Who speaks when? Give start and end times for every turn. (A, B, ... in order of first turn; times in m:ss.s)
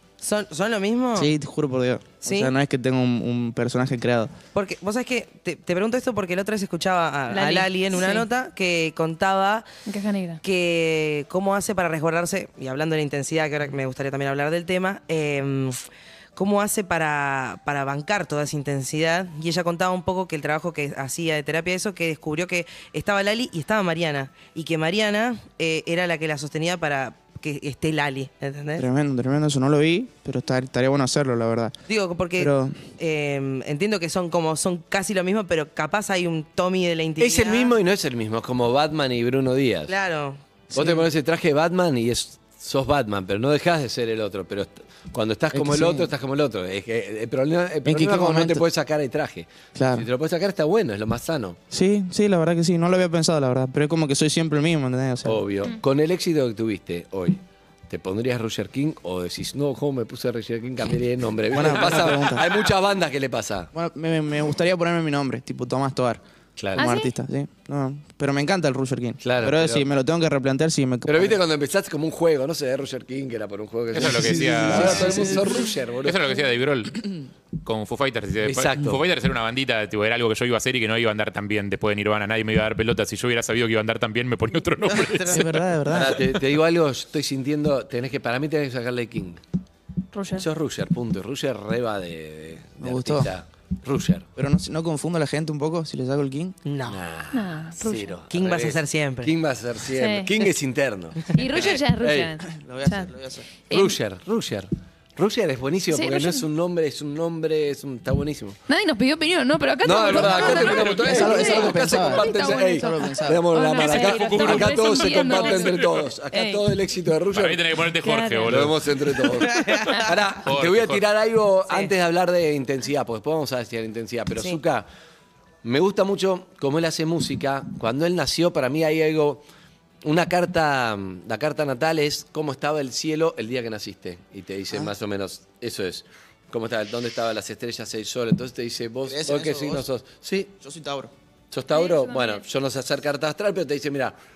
0:00.2-0:01.3 A
0:01.2-0:04.3 B
0:02.2-0:02.5 A
0:04.6-0:09.7 A
0:07.3-0:08.3 C
0:09.9-0:10.4 C
0:10.4-0:15.8 A
0:16.4-0:28.8 A
0:28.8-0:31.7 B
0:31.9-0:37.7 A
0:32.4-0:32.8 B
0:37.2-0:39.9 D
0:39.9-0:40.4 A
0:40.7-0:41.0 B
0:40.7-0:51.6 D
0:45.5-0:46.1 B
0:47.8-0:48.6 B
0:49.8-0:50.1 B
0:51.7-0:55.4 B
0:55.2-1:03.7 D
1:01.5-1:02.5 B
1:03.7-1:06.2 B
1:06.6-1:06.8 D
1:06.8-1:11.4 B
1:06.8-1:07.1 C
1:09.2-1:09.9 D
1:11.1-1:16.2 D
1:13.9-1:15.4 E
1:14.3-1:15.4 B
1:16.0-1:25.6 E
1:18.4-1:19.0 D
1:25.3-1:26.4 B
1:25.9-1:29.4 D
1:30.1-1:30.5 C
1:30.3-1:34.3 D
1:32.8-1:33.3 B
1:34.4-1:36.6 B
1:36.6-1:37.0 A
1:36.9-1:42.4 D
1:37.3-1:38.2 C
1:38.3-1:39.3 A
1:40.0-1:40.4 C
1:41.3-1:43.1 C
1:42.5-1:43.5 B
1:43.7-1:44.0 C
1:43.7-1:48.6 D
1:45.9-1:46.4 C
1:48.7-1:56.6 C
1:49.8-1:57.6 D
1:50.1-1:51.4 E
1:51.0-1:53.4 B
1:53.8-1:56.1 E
1:57.3-2:01.1 E
1:58.0-1:58.7 C
1:58.5-2:04.9 D
1:59.5-1:59.8 A
2:05.6-2:09.4 D
2:10.0-2:20.5 D
2:19.0-2:19.9 B
2:20.6-2:21.1 B
2:21.5-2:24.2 D
2:21.7-2:22.4 C